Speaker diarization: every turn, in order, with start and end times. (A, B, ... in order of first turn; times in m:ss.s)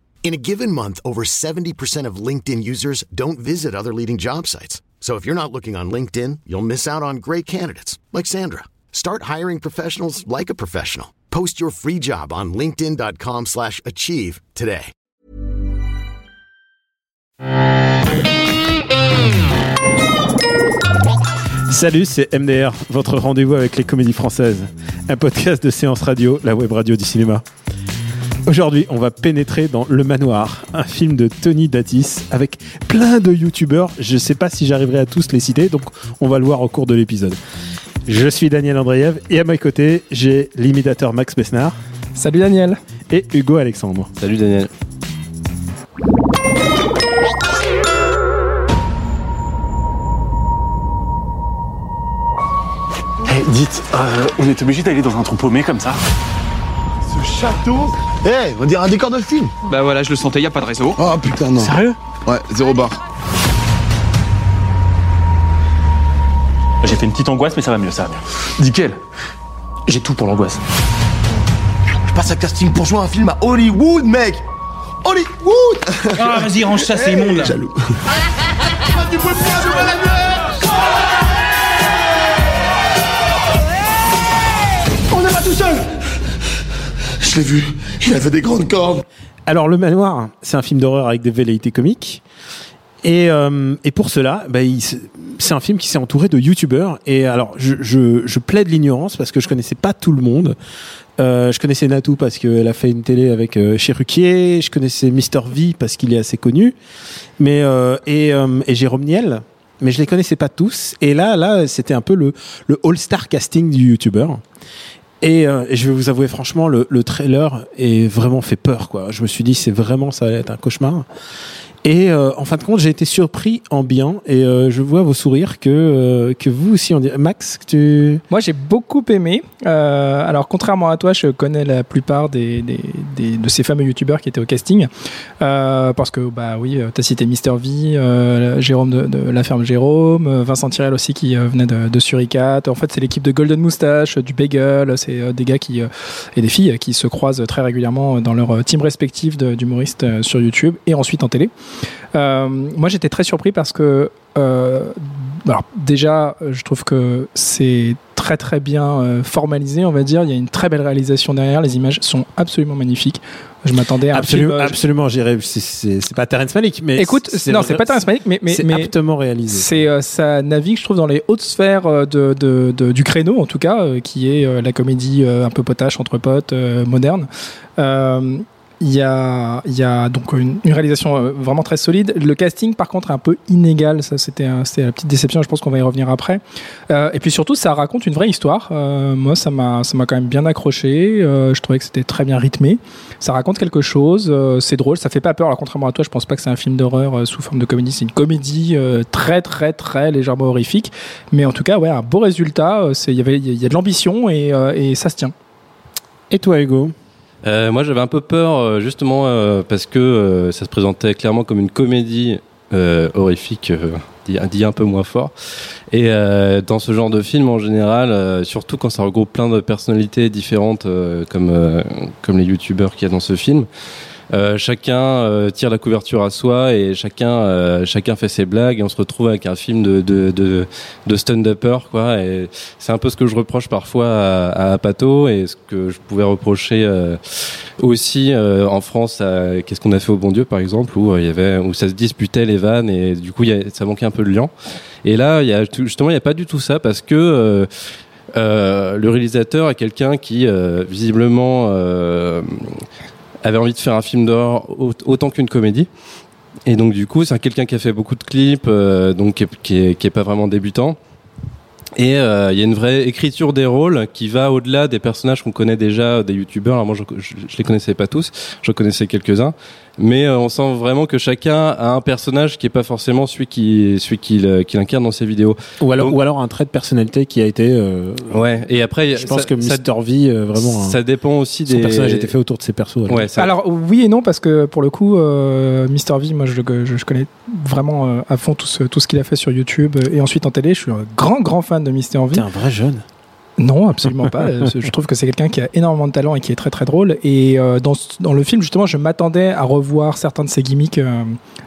0:00.2-0:14.9 A
0:21.7-0:27.4 B
0:28.5-0:37.4 B
0:38.1-0:41.8 B
0:42.2-0:42.8 C
0:43.1-0:44.1 B
0:44.2-0:44.7 D
0:53.3-0:56.0 E
0:57.1-0:59.5 F
0:59.7-1:01.0 G
1:01.0-1:03.0 F
1:01.6-1:02.0 E
1:06.8-1:09.0 E
1:09.9-1:10.6 E
1:12.1-1:14.4 F
1:15.0-1:17.8 F
1:16.2-1:17.5 G
1:16.2-1:17.5 E
1:19.0-1:20.4 F
1:25.1-1:25.8 F
1:27.2-1:29.0 F
1:29.5-1:32.2 B
1:33.0-1:40.6 B
1:41.2-1:46.8 B
1:47.4-1:54.4 B
1:55.2-2:01.1 B
2:01.8-2:08.2 B
2:08.3-2:14.9 C
2:15.4-2:31.5 C
2:32.1-2:44.8 C
2:44.1-2:49.8 B
2:47.0-2:48.9 C
2:49.5-3:25.3 C
3:26.3-3:26.9 B
3:27.4-3:35.3 D
3:35.9-3:43.7 D
3:44.3-4:04.5 D
4:05.0-4:07.7 D
4:08.3-4:12.8 D
4:13.4-4:15.9 D
4:16.7-4:21.0 D
4:22.0-4:36.2 D
4:35.8-4:38.4 B
4:38.3-4:39.8 D
4:39.2-4:41.0 B
4:40.6-4:42.3 D
4:41.7-4:43.3 B
4:43.1-4:43.5 D
4:43.4-4:52.5 C
4:52.3-4:53.0 B
4:53.6-5:01.4 C